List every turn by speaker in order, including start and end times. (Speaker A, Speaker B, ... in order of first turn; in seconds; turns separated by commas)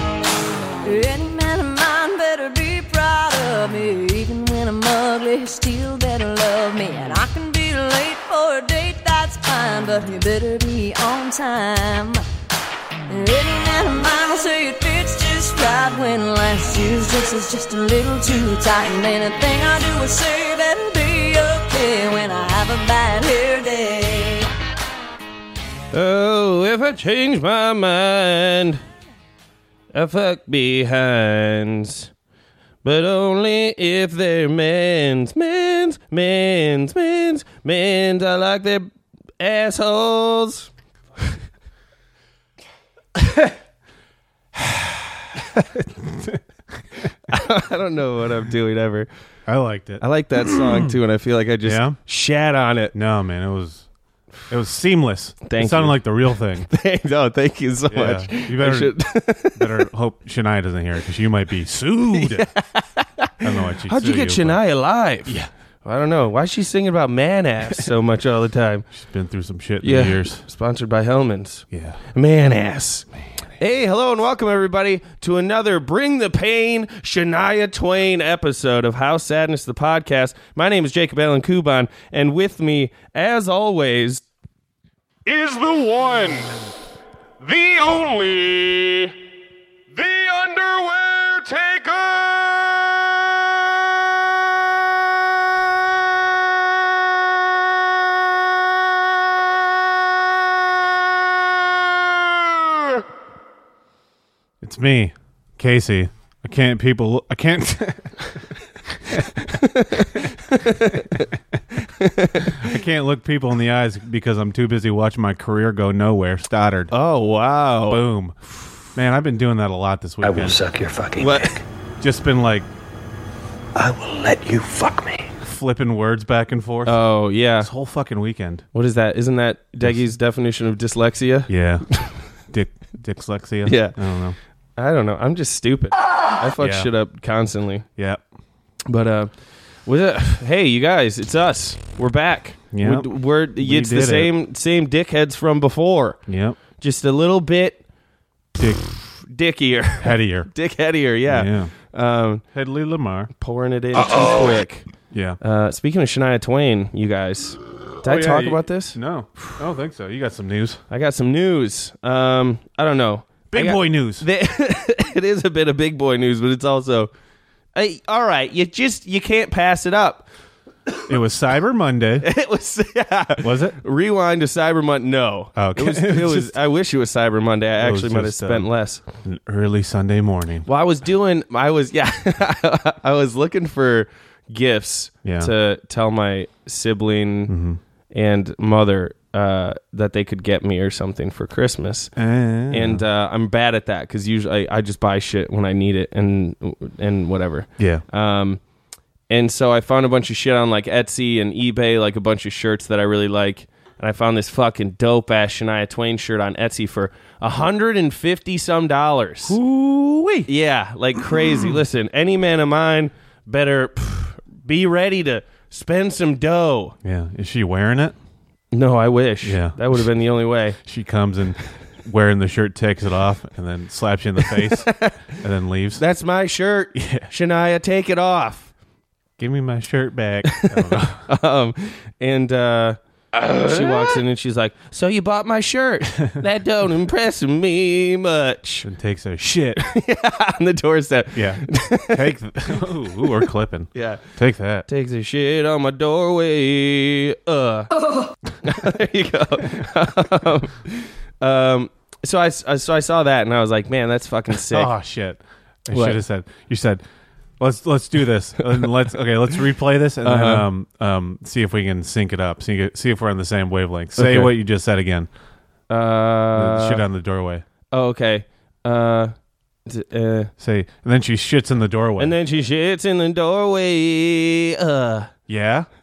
Speaker A: 0.8-12.2, Speaker A: 13.1-24.5, Speaker B: 25.9-28.8, Speaker B: 29.9-32.1, Speaker B: 32.8-40.7, Speaker C: 45.8-46.4, Speaker B: 47.3-49.1, Speaker C: 49.5-51.0, Speaker B: 50.0-52.9, Speaker C: 51.6-52.0, Speaker C: 52.9-53.9, Speaker C: 54.5-56.7, Speaker B: 55.4-59.9, Speaker C: 57.9-62.5, Speaker B: 62.1-68.9, Speaker C: 63.4-64.6, Speaker C: 65.2-65.5, Speaker C: 68.9-70.4, Speaker B: 69.8-84.2, Speaker C: 71.7-72.0, Speaker D: 85.2-86.5, Speaker D: 87.4-89.1, Speaker D: 89.9-93.4, Speaker C: 104.6-109.5, Speaker B: 109.5-111.3, Speaker B: 111.8-112.6, Speaker C: 112.5-116.9, Speaker B: 116.9-118.0, Speaker C: 117.9-118.4, Speaker C: 118.9-120.6, Speaker E: 120.2-121.6, Speaker B: 121.2-121.5, Speaker C: 122.0-122.7, Speaker E: 123.8-125.3, Speaker C: 125.4-128.6, Speaker B: 126.8-127.7, Speaker B: 128.7-132.2, Speaker C: 129.8-130.1, Speaker C: 131.5-134.4, Speaker B: 133.6-133.9, Speaker B: 134.8-137.8, Speaker C: 136.6-136.9, Speaker C: 137.9-138.2, Speaker B: 138.9-146.2, Speaker C: 142.7-144.3, Speaker C: 146.3-146.6, Speaker B: 146.8-147.8, Speaker C: 148.6-148.9, Speaker B: 149.0-152.4, Speaker C: 150.0-150.5, Speaker C: 151.3-151.7, Speaker C: 152.5-153.3, Speaker B: 153.4-154.9, Speaker C: 155.1-155.4, Speaker B: 155.4-159.0, Speaker C: 158.0-160.8, Speaker B: 160.9-167.1, Speaker C: 163.5-164.2, Speaker B: 167.7-170.2, Speaker C: 171.1-172.3, Speaker B: 172.2-179.0, Speaker C: 173.4-173.8, Speaker C: 175.6-176.5, Speaker C: 177.8-180.7, Speaker B: 180.7-187.6, Speaker C: 185.2-185.5, Speaker C: 187.5-187.8, Speaker B: 188.1-198.6, Speaker C: 192.2-193.0, Speaker C: 197.8-198.0, Speaker B: 199.3-209.6, Speaker C: 209.4-210.5, Speaker B: 210.5-216.9, Speaker C: 217.0-218.2, Speaker B: 218.7-220.8, Speaker C: 219.4-220.1, Speaker C: 220.8-226.0, Speaker B: 224.4-225.3, Speaker B: 226.0-228.7, Speaker C: 226.9-227.3, Speaker C: 229.4-231.2, Speaker B: 230.5-238.9, Speaker C: 238.8-239.8, Speaker B: 239.8-244.2, Speaker C: 241.3-244.8, Speaker B: 244.9-248.1, Speaker B: 248.6-254.9, Speaker C: 254.7-257.0, Speaker B: 255.9-256.2, Speaker C: 257.6-265.3, Speaker B: 260.2-260.7, Speaker B: 264.1-264.6, Speaker B: 265.9-267.0, Speaker C: 266.5-267.6, Speaker B: 267.9-269.3, Speaker B: 269.8-270.5, Speaker C: 270.6-272.4, Speaker B: 272.2-275.3, Speaker C: 275.5-275.9